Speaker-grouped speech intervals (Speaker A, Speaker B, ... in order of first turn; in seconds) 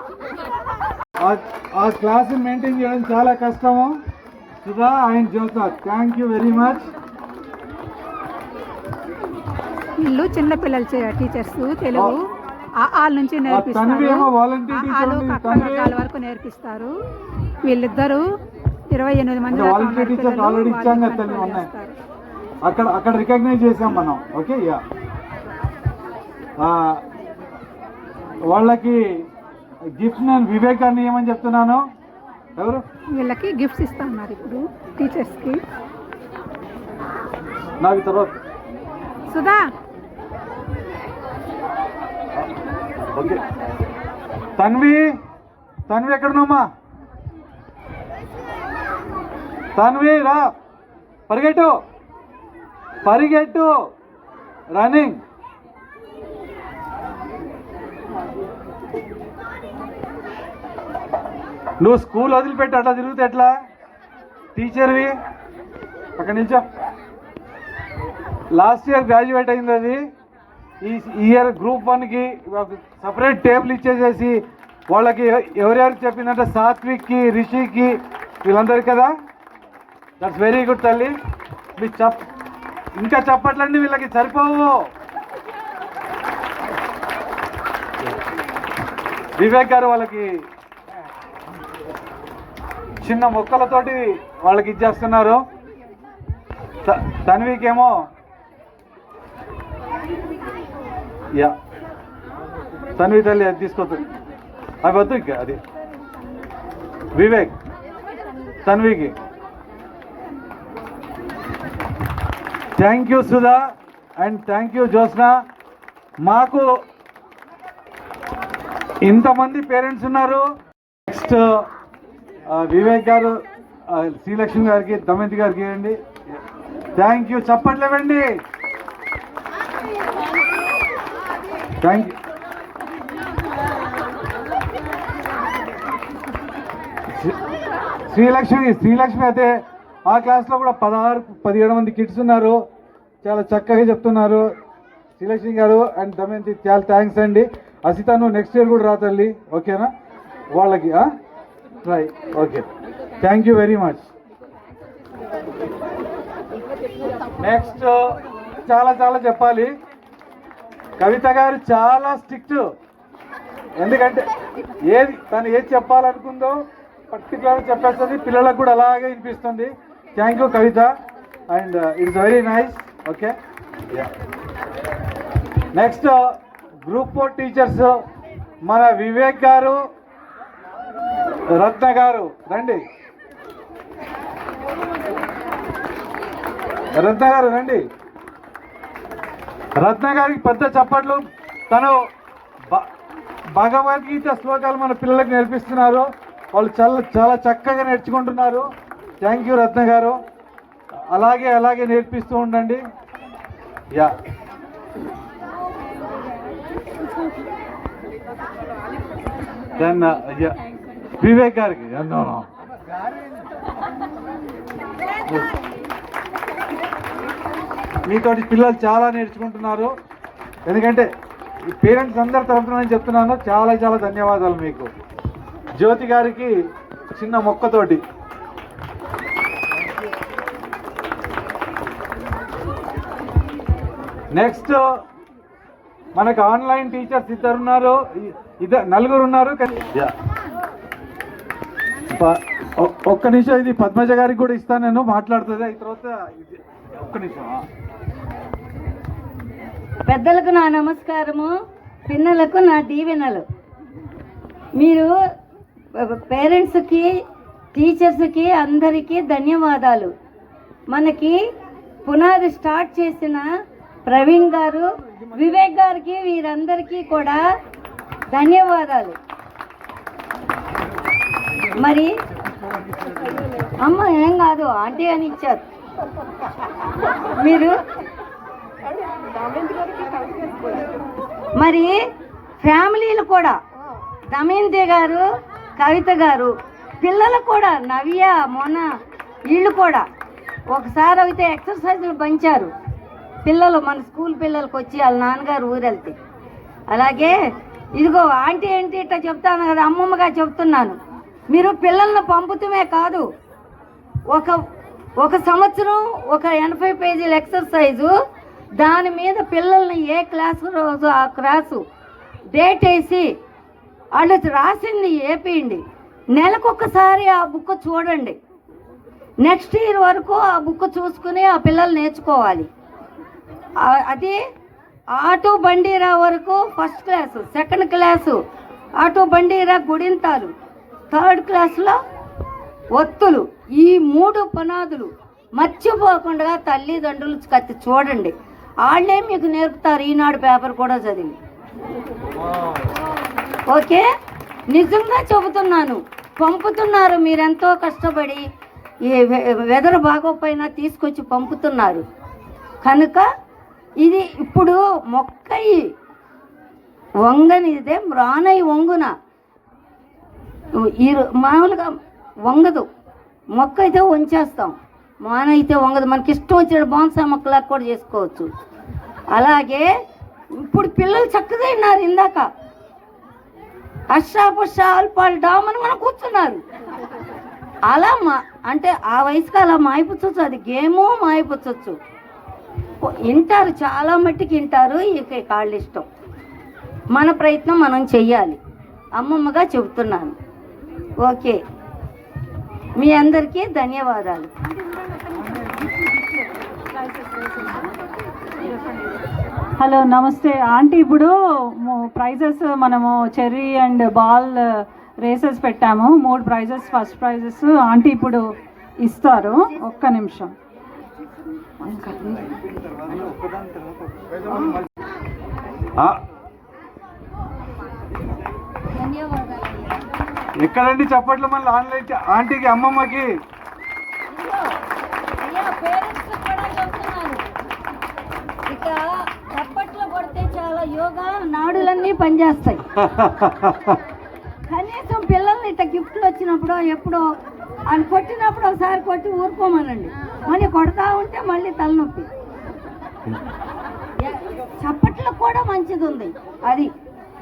Speaker A: 1.2-4.0, 4.6-6.9, 13.5-15.9, 19.5-21.7, 22.6-24.8, 26.6-27.0, 28.5-29.2, 29.9-31.9, 32.6-32.8, 37.8-38.4, 43.1-43.4, 44.6-45.1, 45.9-46.6, 49.8-50.5, 51.3-51.7, 53.0-53.8, 54.7-55.2, 61.8-63.5, 64.5-65.1, 66.2-66.6, 68.5-70.0, 70.8-74.4, 74.9-79.1, 80.2-81.1, 81.8-82.2, 83.0-84.8, 89.4-90.4, 93.0-95.4, 96.8-98.1, 103.0-104.0, 104.8-105.6, 107.1-107.5, 108.7-109.1, 112.8-115.4, 116.2-116.7, 119.0-120.4, 121.1-121.7, 122.5-126.0, 127.0-128.3, 131.8-132.1, 138.1-139.5, 140.1-142.6, 143.2-144.5, 145.2-149.9, 150.5-151.1, 151.8-152.6, 153.2-154.1, 157.4-159.7, 161.0-162.7, 163.8-164.2, 164.8-170.9, 171.5-173.3, 175.7-178.0, 178.6-179.8, 181.5-182.8, 187.0-187.8, 189.8-192.0, 193.5-198.7, 199.2-200.2, 201.1-202.8, 209.8-210.6, 211.2-212.5, 218.0-219.9, 220.7-221.1, 221.7-224.9, 225.8-226.5, 227.1-228.0, 234.3-234.8, 236.1-240.1, 242.1-247.7, 413.1-414.7, 420.6-423.3, 433.0-434.0
Speaker B: 10.0-16.9, 17.6-18.2, 18.9-21.9, 33.1-35.6, 39.3-39.6
Speaker C: 250.1-251.5, 252.1-253.4, 254.8-255.1, 256.0-257.1, 257.7-260.1, 260.9-261.4, 262.0-263.5, 264.1-267.4, 268.3-269.2, 271.8-272.1, 273.8-275.6, 277.4-277.7, 281.6-282.0, 282.6-283.6, 284.3-285.2, 285.8-288.9, 289.5-290.0, 290.7-292.7, 293.4-296.1, 296.9-297.4, 297.9-303.2, 304.3-304.6, 305.2-308.1, 308.8-311.8, 312.5-313.3, 314.1-315.8, 316.3-318.4, 319.4-322.7, 323.8-324.4, 325.1-328.4, 329.0-330.5, 331.1-332.0, 332.9-338.3, 338.8-341.4, 343.7-344.1, 344.7-348.4, 349.0-352.0, 352.8-353.3, 354.0-355.9, 357.2-359.1, 360.7-361.9, 362.4-362.9, 363.5-368.5, 369.3-369.9, 370.6-372.5, 374.1-376.6, 377.9-382.0, 383.0-386.1, 387.1-388.6, 389.2-390.4, 391.2-391.6, 393.0-394.5, 418.9-420.0, 424.3-424.6, 425.4-427.4, 428.6-432.8, 434.7-437.2, 437.9-442.3, 444.2-446.9
Speaker D: 394.9-397.9, 399.8-408.4, 409.0-410.5, 411.8-412.7